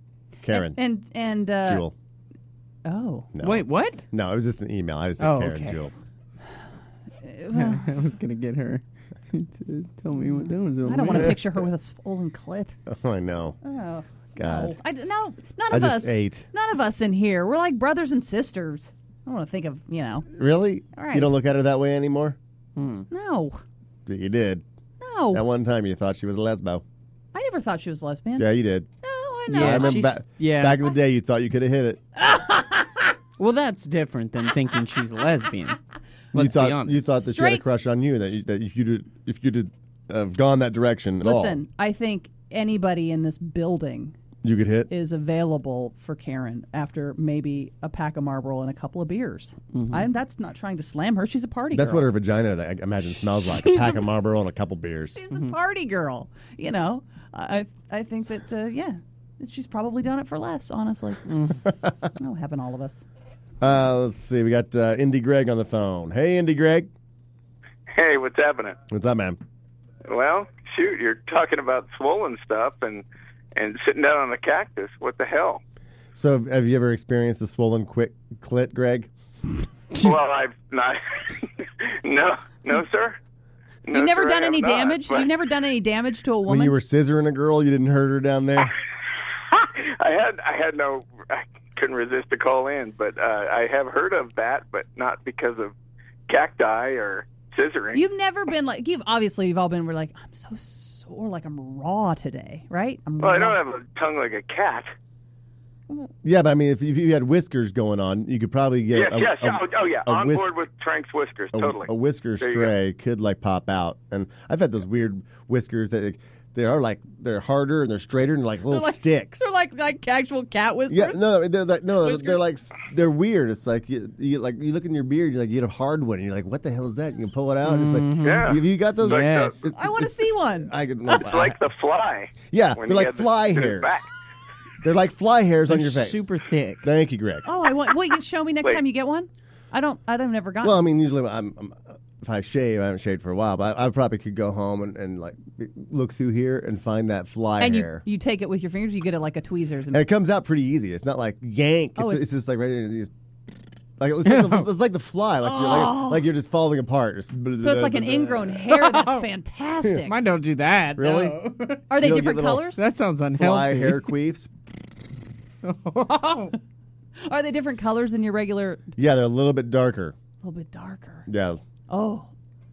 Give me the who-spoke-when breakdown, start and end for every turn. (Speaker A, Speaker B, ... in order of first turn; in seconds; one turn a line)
Speaker A: 0.4-0.8
Speaker B: 0.5-1.9
Speaker A: 1.6-1.9
Speaker B: 2.8-3.3
Speaker A: 3.3-5.9
Speaker C: 3.4-4.1
Speaker C: 5.2-5.9
Speaker B: 7.2-7.9
Speaker C: 7.5-11.4
Speaker B: 10.4-12.8
Speaker A: 12.9-13.6
Speaker B: 13.6-20.3
Speaker A: 14.3-14.7
Speaker A: 15.7-16.5
Speaker A: 20.3-22.4
Speaker B: 20.9-21.3
Speaker C: 22.8-23.1
Speaker B: 23.1-23.6
Speaker A: 24.1-24.6
Speaker B: 25.0-25.4
Speaker A: 25.3-26.8
Speaker B: 27.3-28.5
Speaker A: 28.4-28.9
Speaker B: 29.0-30.1
Speaker C: 29.5-30.8
Speaker A: 29.5-32.0
Speaker B: 32.2-32.8
Speaker C: 33.4-35.8
Speaker C: 36.3-37.1
Speaker A: 36.3-41.6
Speaker B: 37.1-37.6
Speaker B: 41.2-44.1
Speaker A: 44.4-44.9
Speaker B: 44.9-52.1
Speaker C: 49.7-50.0
Speaker A: 51.7-55.2
Speaker B: 53.5-54.1
Speaker B: 55.1-61.3
Speaker C: 61.3-61.6
Speaker B: 62.2-63.0
Speaker A: 63.6-66.9
Speaker D: 67.9-68.8
Speaker A: 68.9-69.4
Speaker D: 70.0-75.6
Speaker A: 76.1-79.1
Speaker D: 79.9-83.2
Speaker D: 83.9-85.3
Speaker B: 83.9-86.7
Speaker A: 86.5-88.7
Speaker D: 89.5-95.7
Speaker D: 96.3-98.0
Speaker B: 97.9-103.6
Speaker D: 103.2-104.9
Speaker A: 106.2-110.5
Speaker D: 108.9-112.7
Speaker A: 111.5-119.4
Speaker B: 118.7-121.3
Speaker A: 120.9-131.6
Speaker B: 122.0-122.4
Speaker C: 127.6-129.7
Speaker D: 128.2-129.6
Speaker B: 129.7-131.2
Speaker D: 131.1-134.1
Speaker A: 132.5-134.1
Speaker A: 134.8-136.3
Speaker C: 135.7-136.9
Speaker A: 136.8-137.5
Speaker B: 137.4-140.8
Speaker A: 140.6-148.0
Speaker B: 147.6-150.0
Speaker A: 149.9-153.1
Speaker B: 152.0-152.3
Speaker A: 154.0-158.6
Speaker C: 154.2-154.7
Speaker B: 155.4-156.3
Speaker B: 157.6-160.1
Speaker C: 158.7-159.3
Speaker C: 160.0-161.8
Speaker A: 161.0-161.4
Speaker B: 161.9-162.8
Speaker A: 162.0-162.7
Speaker C: 162.7-164.1
Speaker A: 163.4-164.5
Speaker C: 165.6-166.5
Speaker B: 167.2-168.8
Speaker A: 169.0-170.2
Speaker B: 170.4-171.3
Speaker A: 171.3-171.6
Speaker B: 171.9-172.3